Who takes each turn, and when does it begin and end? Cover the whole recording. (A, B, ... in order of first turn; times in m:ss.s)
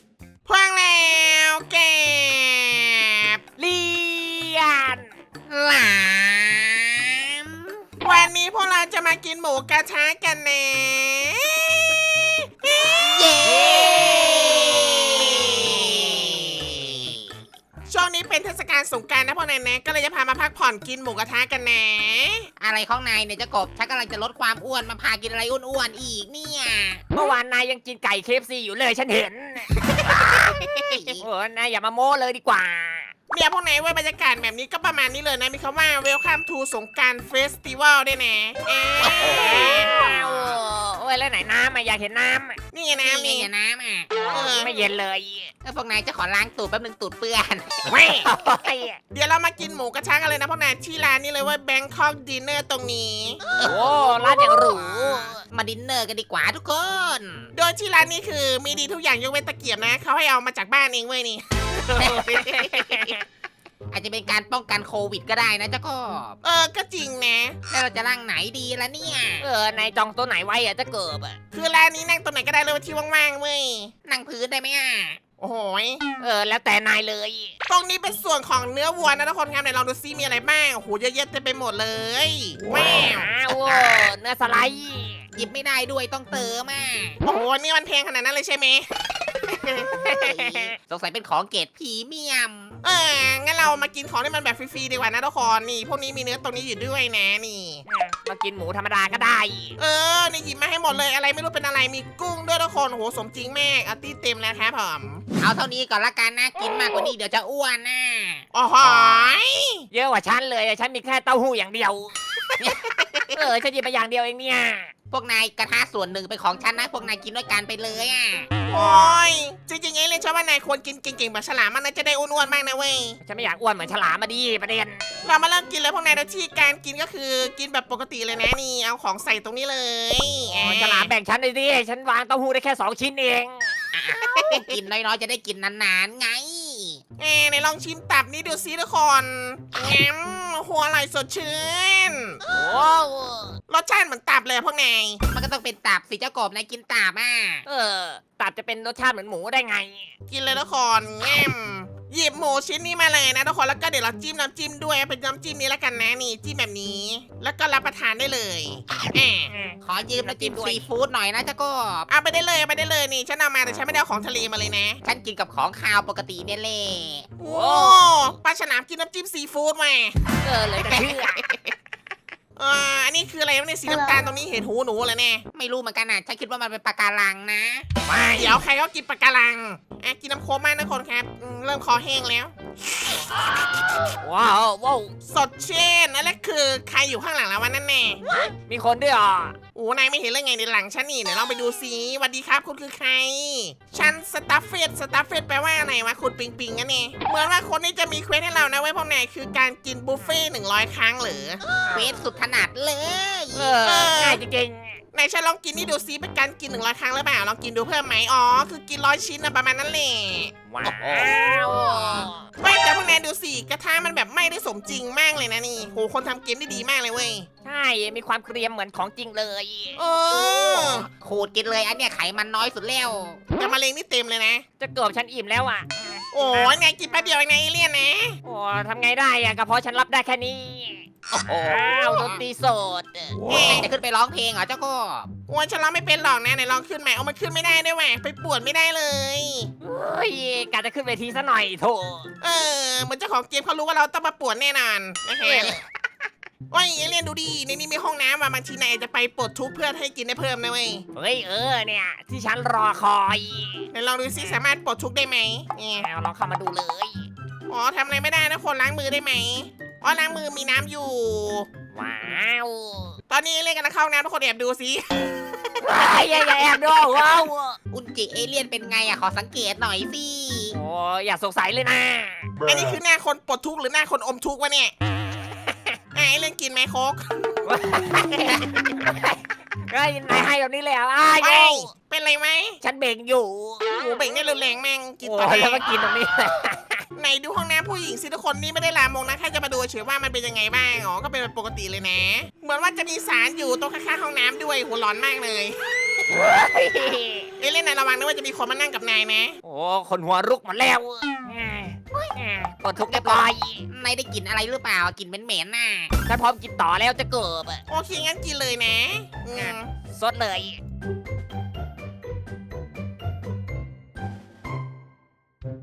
0:00.4-0:03.4 A
0:03.6-0:05.0 B
0:05.5-0:07.8 C
0:08.0-0:13.0 A
0:12.8-0:17.2 C
0:13.4-0:15.4 B
0:15.4-0:16.4 A
0:17.9-0:22.5 A
0:22.6-0:27.0 C
0:27.1-0:30.3 B
0:29.9-0:31.2 C
0:31.1-0:33.1 B
0:33.3-0:39.9 A
0:39.1-0:42.6 B
0:39.2-0:40.5 C
0:42.7-0:43.5 A
0:42.9-0:44.5 C
0:44.1-0:45.5 B
0:44.3-0:44.8 A
0:45.6-0:48.0 C
0:47.8-0:48.3 A
0:48.2-0:49.0 B
0:49.1-0:53.4 A
0:53.5-0:57.5 C
0:53.6-0:55.4 B
0:57.5-1:03.1 A
1:01.9-1:03.2 B
1:03.9-1:06.4 C
1:06.4-1:07.6 A
1:07.7-1:09.5 C
1:09.4-1:11.4 B
1:11.5-1:13.9 A
1:14.0-1:15.2 C
1:15.4-1:16.0 A
1:16.2-1:17.5 B
1:17.7-1:23.3 A
1:22.8-1:25.2 B
1:23.7-1:24.0 C
1:25.3-1:27.2 C
1:27.2-1:28.9 A
1:29.9-1:30.7 B
1:30.0-1:32.8 C
1:32.8-1:37.8 A
1:37.9-1:39.8 B
1:39.8-1:45.2 A
1:45.4-1:48.4 C
1:48.5-1:49.8 A
1:48.8-1:49.3 B
1:49.9-1:52.7 B
1:52.6-1:53.5 C
1:53.3-1:54.9 B
1:55.1-1:58.5 C
1:58.7-2:03.2 A
2:03.2-2:05.0 B
2:05.2-2:11.1 A
2:10.5-2:13.7 B
2:13.9-2:17.0 C
2:17.2-2:22.4 A
2:22.5-2:23.6 B
2:23.7-2:25.2 A
2:25.3-2:27.6 C
2:27.6-2:30.1 B
2:30.3-2:39.5 A
2:39.5-2:40.8 B
2:39.8-2:42.1 C
2:42.1-2:45.0 A
2:45.0-2:47.3 C
2:47.4-2:50.2 A
2:47.4-2:48.1 B
2:50.4-2:51.4 B
2:50.8-2:51.7 C
2:52.6-2:55.4 A
2:55.5-2:57.9 C
2:58.0-2:58.6 B
2:58.4-3:02.5 A
3:04.2-3:05.1 B
3:05.2-3:08.2 A
3:08.3-3:09.6 B
3:09.7-3:21.6 A
3:21.7-3:22.0 B
3:21.9-3:23.8 C
3:23.5-3:25.0 B
3:23.8-3:24.4 A
3:25.1-3:30.5 A
3:30.7-3:32.4 B
3:30.8-3:32.3 C
3:32.6-3:37.5 A
3:37.6-3:40.0 B
3:40.0-3:41.1 A
3:40.7-3:43.4 C
3:43.6-3:44.6 A
3:44.8-3:47.4 B
3:46.3-3:48.4 A
3:48.4-3:53.6 B
3:51.3-3:52.4 C
3:53.5-3:53.9 A
3:53.5-3:55.3 C
3:55.5-3:59.7 A
3:59.8-4:02.3 B
4:02.4-4:05.8 A
4:05.4-4:05.8 B
4:06.7-4:11.0 A
4:11.1-4:14.6 B
4:13.9-4:16.1 A
4:15.9-4:17.3 B
4:17.7-4:21.7 A
4:21.9-4:23.2 B
4:23.3-4:25.8 A
4:25.8-4:27.8 B
4:27.9-4:30.8 C
4:30.7-4:32.5 B
4:32.6-4:34.9 A
4:36.1-4:37.8 A
4:37.6-4:41.9 B
4:41.4-4:42.8 A
4:42.8-4:44.2 B
4:43.8-4:45.8 A
4:45.2-4:47.0 B
4:47.1-4:55.8 A
4:56.3-4:57.5 B
4:57.6-4:59.5 A
4:59.6-5:03.8 B
5:03.1-5:06.1 C
5:06.3-5:07.8 B
5:07.9-5:09.9 A
5:09.5-5:10.8 B